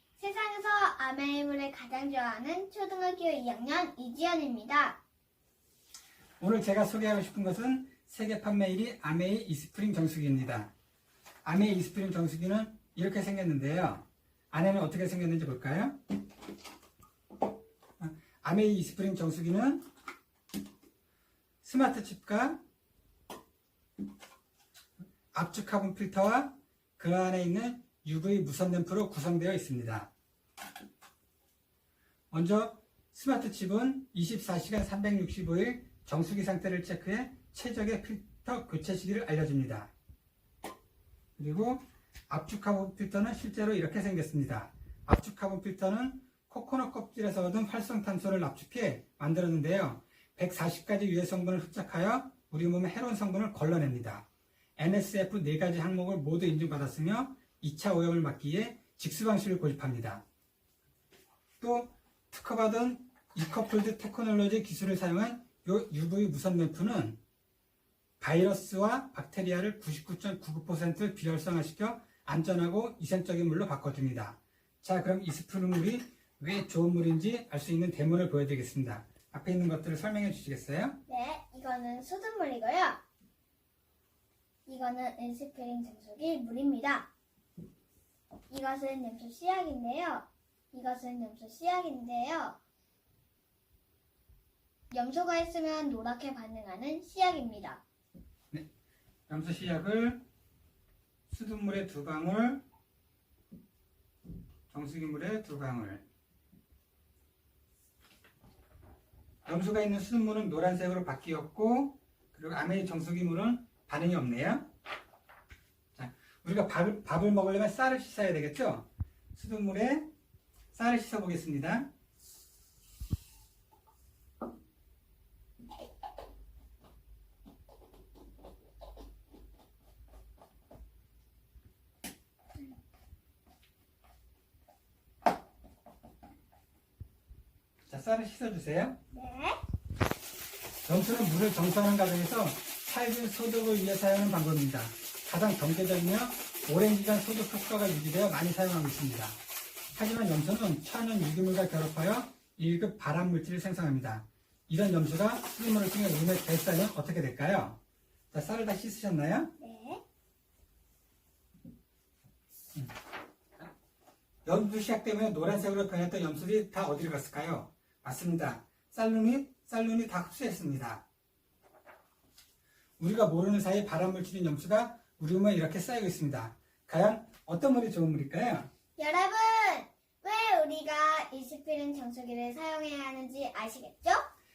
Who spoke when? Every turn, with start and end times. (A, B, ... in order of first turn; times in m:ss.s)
0:00.2-0:05.0 A
0:06.4-0:10.7 B
0:11.4-0:16.0 B
0:18.0-0:19.9 B
0:21.6-0:22.6 B
0:25.3-0:30.1 B
0:32.3-0:39.9 B
0:41.4-0:54.2 B
0:54.8-1:00.2 B
1:01.6-1:07.2 B
1:08.2-1:21.0 B
1:21.1-1:23.0 A
1:24.7-1:27.1 A
1:28.5-1:32.6 A
1:34.9-1:37.8 A
1:39.3-1:40.2 B
1:41.3-1:42.6 B
1:44.7-1:46.0 B
1:49.4-1:54.7 B
1:55.9-2:00.1 B
2:00.7-2:01.9 B
2:17.9-2:19.0 B
2:19.1-2:19.6 A
2:20.8-2:29.4 B
2:29.9-2:37.8 B
2:38.3-2:39.5 B
2:39.6-2:40.0 A
2:44.4-2:51.0 B
2:53.0-2:58.7 B
2:59.0-3:04.2 A